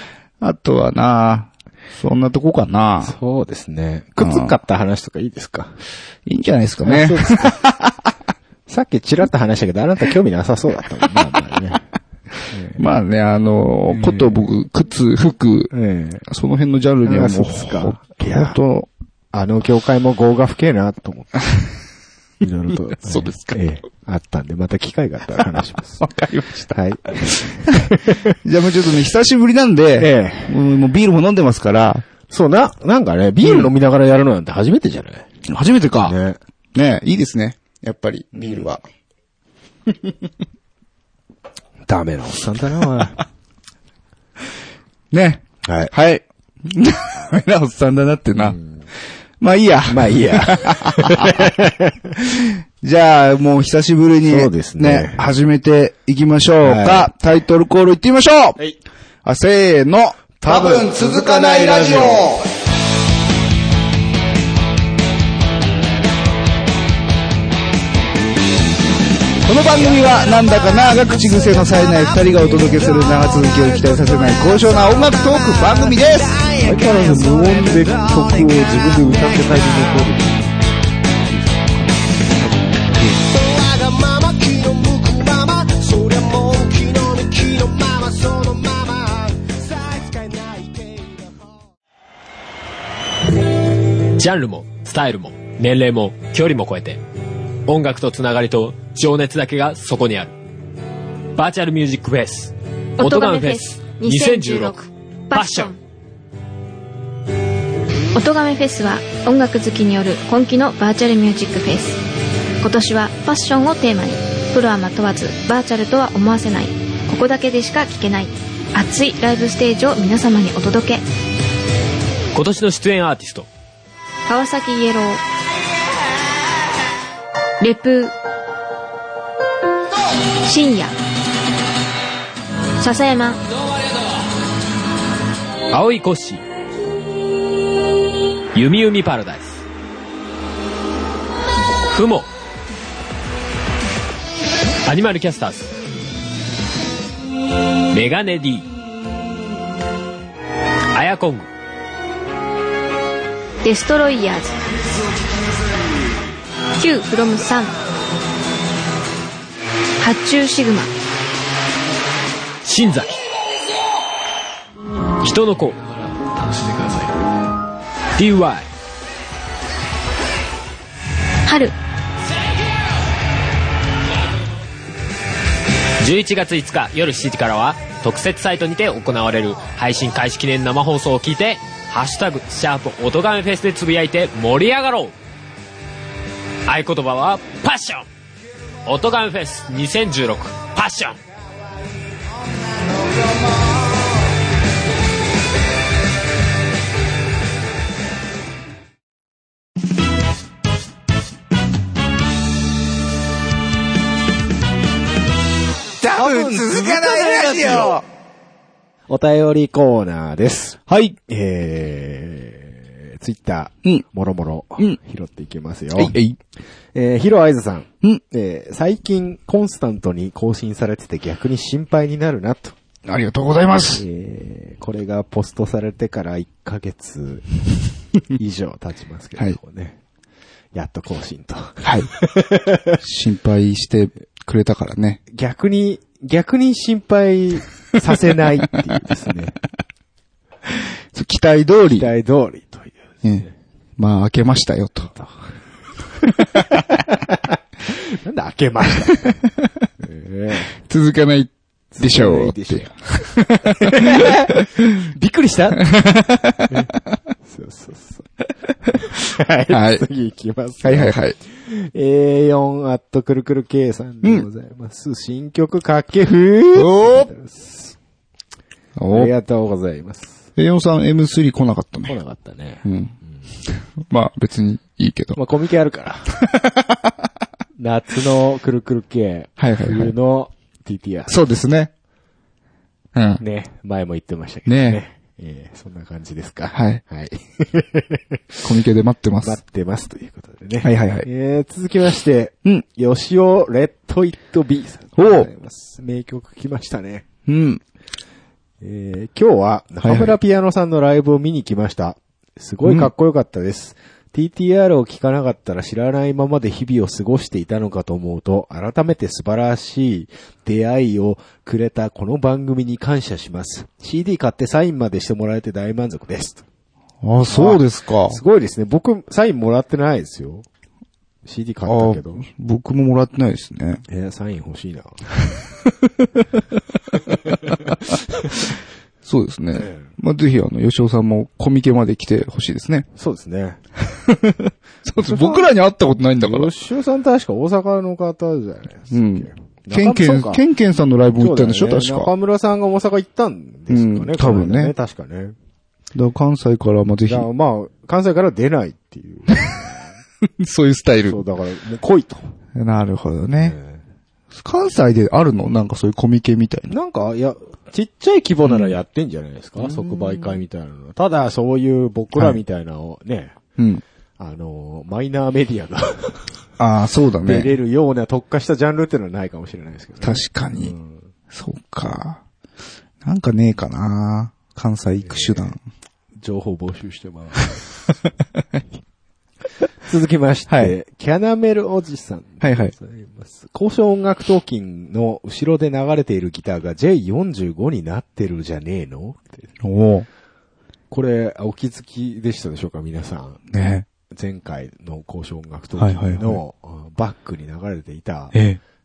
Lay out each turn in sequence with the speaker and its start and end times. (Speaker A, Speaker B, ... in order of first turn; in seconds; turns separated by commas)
Speaker A: 0.4-3.2, Speaker B: 3.0-5.8, Speaker A: 4.2-4.6, Speaker A: 6.3-7.9, Speaker B: 6.8-7.6, Speaker B: 8.7-11.8, Speaker B: 12.5-12.8, Speaker A: 12.8-15.7, Speaker B: 13.9-14.4, Speaker B: 15.7-16.3, Speaker A: 16.3-18.9, Speaker B: 17.0-18.6, Speaker B: 19.3-21.6, Speaker B: 22.4-26.1, Speaker A: 22.7-23.6, Speaker A: 26.0-26.8, Speaker B: 26.7-28.4, Speaker A: 27.7-27.9, Speaker A: 28.4-32.0, Speaker B: 30.0-30.6, Speaker B: 32.3-35.3, Speaker A: 33.4-33.7, Speaker A: 35.5-36.2, Speaker B: 36.0-36.4, Speaker A: 36.8-38.8, Speaker B: 38.4-38.7, Speaker A: 39.9-40.1, Speaker B: 41.9-43.2, Speaker A: 45.1-48.6, Speaker B: 45.6-45.9, Speaker B: 48.3-48.8, Speaker A: 49.4-51.5, Speaker B: 49.9-52.1, Speaker A: 52.2-58.6, Speaker B: 54.3-55.3, Speaker B: 56.6-57.1, Speaker A: 59.2-62.5, Speaker B: 60.4-62.3, Speaker A: 69.4-76.5, Speaker B: 76.6-80.5, Speaker B: 81.3-81.7, Speaker B: 82.5-83.2, Speaker C: 83.4-91.3, Speaker D: 94.2-97.0, Speaker D: 97.7-100.3, Speaker D: 101.4-105.7, Speaker E: 103.0-105.8, Speaker E: 108.1-112.0, Speaker E: 112.6-121.0, Speaker D: 122.3-123.5, Speaker E: 124.3-125.2, Speaker E: 127.6-128.1, Speaker E: 130.4-131.0, Speaker E: 132.8-133.4, Speaker D: 135.7-136.4, Speaker D: 138.6-139.6, Speaker D: 141.9-142.3, Speaker D: 144.8-145.7, Speaker D: 147.9-148.7, Speaker D: 150.9-151.5, Speaker E: 153.6-154.6, Speaker E: 156.8-157.8, Speaker E: 160.0-160.9, Speaker D: 162.6-163.2, Speaker D: 165.2-165.8, Speaker D: 166.6-167.0, Speaker D: 168.2-168.7, Speaker E: 171.5-171.7, Speaker D: 176.0-185.1, Speaker D: 186.7-188.1, Speaker D: 188.8-191.2, Speaker A: 206.0-208.0, Speaker B: 206.1-208.0, Speaker B: 209.1-216.2, Speaker A: 210.9-211.2, Speaker A: 216.0-216.4, Speaker B: 216.9-222.8, Speaker A: 223.1-224.0, Speaker B: 223.9-227.5, Speaker B: 228.3-230.0, Speaker B: 230.7-233.0, Speaker A: 231.8-232.1, Speaker A: 233.0-235.2, Speaker B: 235.3-239.6, Speaker A: 241.1-242.1, Speaker B: 241.9-243.5, Speaker A: 244.0-245.1, Speaker A: 246.5-246.8, Speaker B: 246.6-249.4, Speaker B: 250.0-250.7, Speaker A: 250.8-254.6, Speaker B: 251.9-253.0, Speaker B: 253.6-255.9, Speaker A: 255.8-256.8, Speaker B: 257.4-258.3, Speaker B: 259.1-268.0, Speaker A: 259.7-260.1, Speaker A: 260.8-261.4, Speaker A: 266.7-267.3, Speaker A: 269.0-269.3, Speaker B: 269.1-270.5, Speaker A: 270.6-272.1, Speaker B: 272.1-273.4, Speaker A: 272.8-273.1, Speaker A: 273.7-275.4, Speaker B: 275.4-276.4, Speaker A: 276.5-277.1, Speaker B: 277.8-281.4, Speaker A: 279.6-280.1, Speaker A: 281.3-281.9, Speaker A: 283.1-283.4, Speaker B: 283.4-288.6, Speaker A: 284.7-285.0, Speaker A: 286.7-287.0, Speaker A: 288.6-289.6, Speaker B: 289.4-297.3, Speaker A: 290.8-291.3, Speaker A: 295.2-295.5, Speaker A: 297.5-297.8, Speaker B: 298.8-316.6, Speaker A: 300.0-300.4, Speaker A: 302.8-303.1, Speaker A: 317.2-318.4, Speaker B: 317.5-320.7, Speaker B: 321.4-322.5, Speaker A: 321.9-324.0, Speaker B: 324.1-325.3, Speaker B: 327.5-327.9, Speaker A: 327.9-328.2, Speaker A: 329.2-333.1, Speaker B: 329.8-330.1, Speaker B: 333.1-333.8, Speaker A: 334.1-336.7, Speaker B: 335.2-335.7, Speaker B: 336.4-340.6, Speaker A: 339.1-342.3, Speaker B: 341.3-345.6, Speaker A: 343.9-344.9, Speaker A: 346.1-347.5, Speaker B: 347.3-350.1, Speaker A: 350.6-351.4, Speaker B: 351.3-352.5, Speaker A: 352.8-353.8, Speaker B: 353.6-354.0, Speaker A: 354.5-356.9, Speaker B: 356.9-363.6, Speaker A: 358.7-359.0, Speaker A: 359.8-360.6, Speaker B: 364.4-366.4, Speaker A: 366.8-367.7, Speaker B: 367.4-371.3, Speaker A: 370.2-370.9, Speaker A: 371.5-372.4, Speaker A: 373.2-375.8, Speaker B: 375.2-375.8, Speaker B: 376.4-377.9, Speaker B: 380.1-389.7, Speaker A: 380.7-380.9, Speaker A: 382.6-382.9, Speaker A: 389.8-390.3, Speaker B: 391.1-393.6, Speaker A: 393.7-394.1, Speaker B: 394.3-398.6, Speaker A: 396.0-396.6, Speaker A: 398.5-398.8